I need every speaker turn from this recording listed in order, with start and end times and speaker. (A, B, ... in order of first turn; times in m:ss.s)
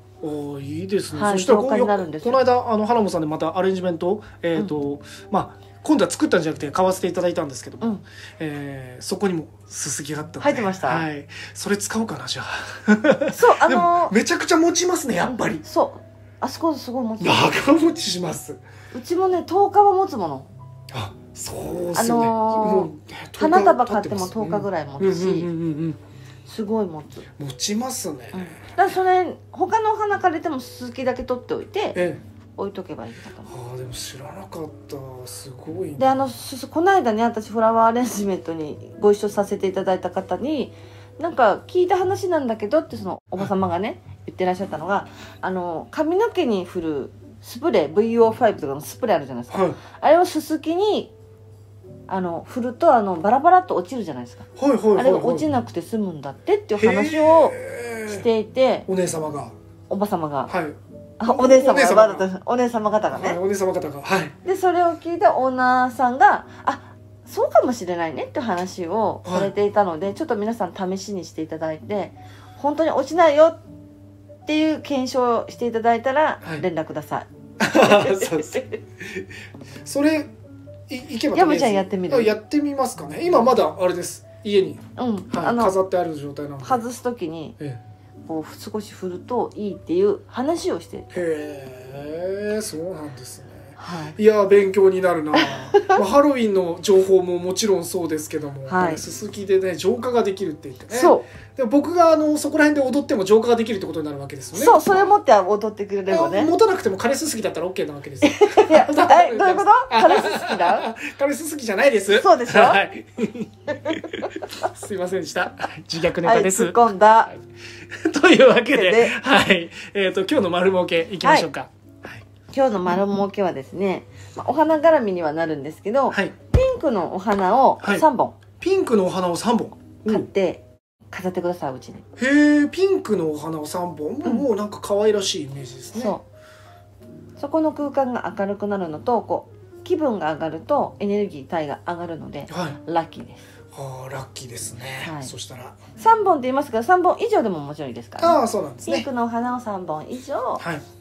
0:00.2-0:15.6 A
0:01.1-0:02.4 B
0:10.4-0:11.1 B
0:13.3-0:14.2 B
0:15.2-0:17.6 B
0:17.2-0:18.6 A
0:18.9-0:20.5 B
0:20.9-0:26.0 A
0:21.9-0:25.5 B
0:26.5-0:27.3 B
0:27.4-0:28.6 A
0:28.3-0:32.0 B
0:32.0-0:32.2 A
0:32.6-0:33.5 B
0:33.5-0:36.3 A
0:36.0-0:51.1 B
0:49.5-0:49.8 A
0:52.1-0:58.9 B
0:54.6-0:55.5 A
0:56.8-0:58.3 A
0:58.9-0:59.5 A
0:59.9-1:00.5 B
1:00.5-1:02.3 A
1:01.2-1:03.4 B
1:03.1-1:04.4 A
1:04.4-1:13.6 B
1:09.2-1:09.5 A
1:14.5-1:17.3 B
1:17.6-1:19.3 A
1:17.8-1:18.8 B
1:19.8-1:20.3 A
1:20.9-1:26.8 A
1:21.3-1:22.3 B
1:25.0-1:25.8 B
1:26.6-1:27.6 B
1:28.3-1:31.2 B
1:31.1-1:45.1 A
1:33.8-1:34.2 B
1:35.4-1:36.0 B
1:38.7-1:39.0 B
1:40.9-1:41.3 B
1:44.5-1:46.5 B
1:46.1-1:56.8 A
1:48.2-1:50.9 B
1:52.1-1:52.8 B
1:56.2-1:57.3 B
1:58.0-2:02.2 A
1:58.7-1:59.2 B
2:01.2-2:01.5 B
2:02.5-2:08.4 B
2:07.8-2:08.1 A
2:08.6-2:10.3 A
2:10.1-2:12.0 B
2:12.2-2:16.2 A
2:15.9-2:16.2 B
2:17.4-2:23.4 B
2:22.5-2:22.8 A
2:23.7-2:25.8 A
2:25.0-2:25.3 B
2:26.0-2:30.6 B
2:28.2-2:29.1 A
2:30.6-2:30.8 A